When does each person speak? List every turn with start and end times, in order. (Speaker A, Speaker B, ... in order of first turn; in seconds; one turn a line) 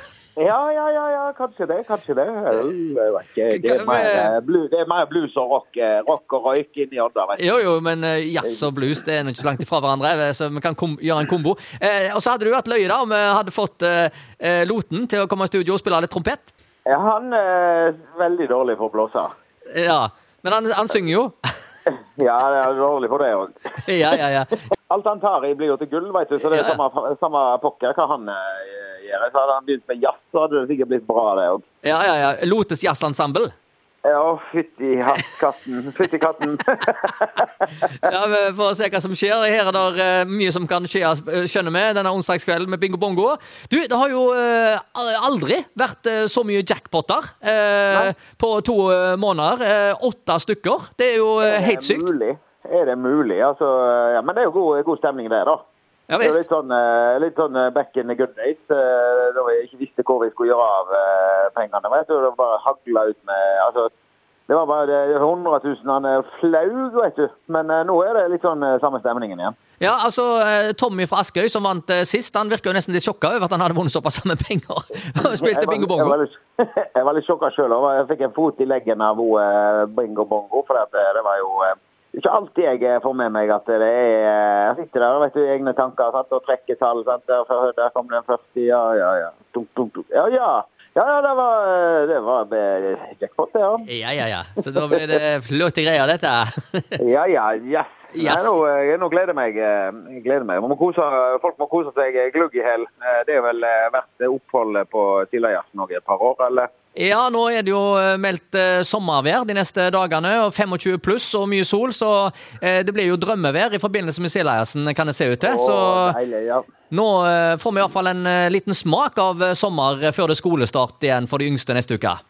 Speaker A: 0.4-7.6
Speaker B: 3.5-4.3
Speaker B: 7.4-16.5
Speaker A: 8.4-8.7
Speaker A: 16.9-19.3
Speaker B: 19.7-21.4
Speaker A: 21.9-23.8
Speaker B: 23.8-24.6
Speaker A: 24.9-31.6
Speaker B: 26.4-26.8
Speaker B: 31.8-33.5
Speaker A: 34.0-37.5
Speaker B: 37.8-52.1
Speaker A: 51.4-55.6
Speaker B: 56.1-56.4
Speaker A: 56.2-63.9
Speaker A: 64.5-69.6
Speaker B: 69.8-76.2
Speaker A: 75.2-93.9
Speaker B: 93.8-97.0
Speaker A: 97.0-106.7
Speaker B: 98.1-98.6
Speaker B: 107.0-116.2
Speaker A: 115.4-116.6
Speaker B: 116.9-122.2